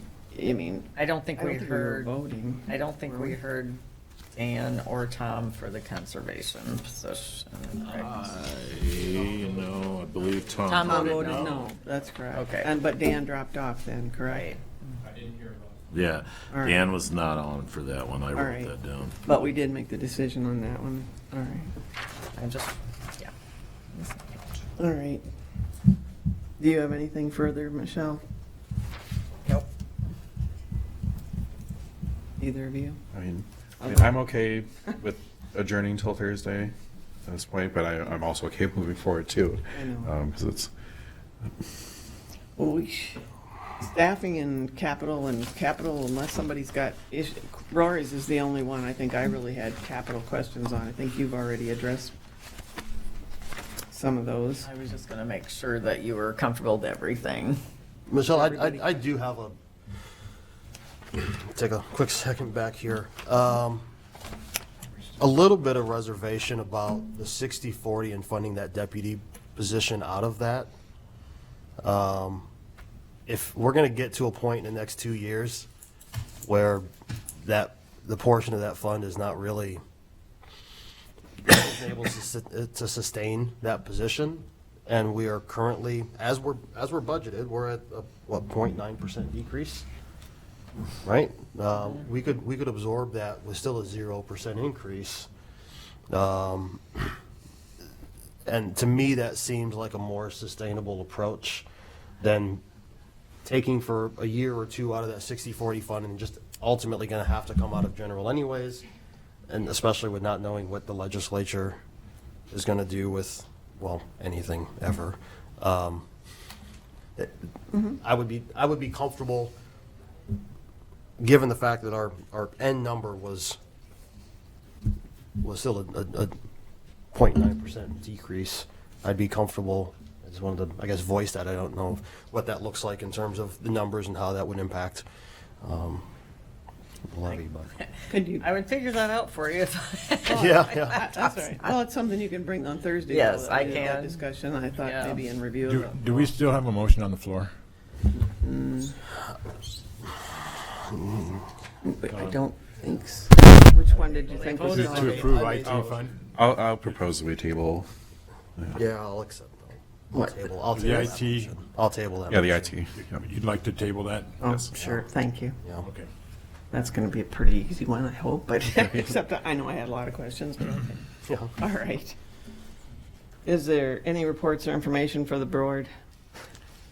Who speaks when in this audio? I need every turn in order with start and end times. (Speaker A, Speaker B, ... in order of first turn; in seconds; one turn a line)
Speaker A: 0.3-3.4
Speaker B: 0.9-2.1
Speaker B: 2.7-3.8
Speaker B: 4.3-8.2
Speaker C: 7.9-11.6
Speaker B: 10.7-11.7
Speaker A: 10.8-14.5
Speaker B: 12.3-12.7
Speaker B: 14.3-14.6
Speaker D: 15.2-15.5
Speaker C: 15.9-19.1
Speaker A: 16.5-16.8
Speaker A: 18.3-18.7
Speaker A: 19.2-21.7
Speaker B: 22.3-23.3
Speaker B: 23.9-24.4
Speaker A: 24.8-25.2
Speaker A: 26.6-28.2
Speaker A: 32.4-33.0
Speaker E: 33.1-36.7
Speaker A: 33.8-34.1
Speaker E: 37.2-40.7
Speaker A: 39.7-40.1
Speaker A: 42.6-43.2
Speaker A: 43.8-52.1
Speaker A: 53.9-54.7
Speaker B: 54.6-57.6
Speaker F: 58.1-59.5
Speaker B: 58.3-58.7
Speaker F: 61.1-63.8
Speaker F: 65.2-70.7
Speaker F: 71.8-72.5
Speaker F: 73.3-75.7
Speaker F: 76.4-76.9
Speaker F: 77.4-79.8
Speaker F: 81.5-89.9
Speaker F: 91.0-95.3
Speaker F: 96.1-97.2
Speaker F: 98.5-101.7
Speaker F: 102.2-102.6
Speaker F: 103.4-108.8
Speaker F: 109.5-111.8
Speaker F: 112.5-116.1
Speaker F: 117.2-119.5
Speaker F: 121.2-123.6
Speaker F: 125.4-126.3
Speaker F: 127.1-135.0
Speaker F: 135.6-136.0
Speaker F: 137.1-137.7
Speaker B: 137.3-141.6
Speaker A: 138.1-138.5
Speaker A: 140.3-146.2
Speaker F: 140.3-141.0
Speaker B: 143.1-144.2
Speaker B: 144.8-145.2
Speaker D: 145.6-147.5
Speaker A: 148.3-148.9
Speaker F: 150.9-151.4
Speaker A: 151.8-155.9
Speaker D: 152.1-152.4
Speaker B: 154.3-155.5
Speaker D: 154.5-156.2
Speaker E: 155.6-157.9
Speaker F: 158.7-162.7
Speaker A: 160.1-160.4
Speaker D: 160.7-161.5
Speaker E: 162.3-163.3
Speaker D: 163.0-164.4
Speaker A: 164.4-165.6
Speaker E: 164.4-164.8
Speaker F: 164.7-165.0
Speaker F: 165.6-165.9
Speaker D: 165.8-166.1
Speaker A: 166.7-171.0
Speaker F: 171.3-171.5
Speaker A: 171.6-172.2
Speaker A: 173.4-175.9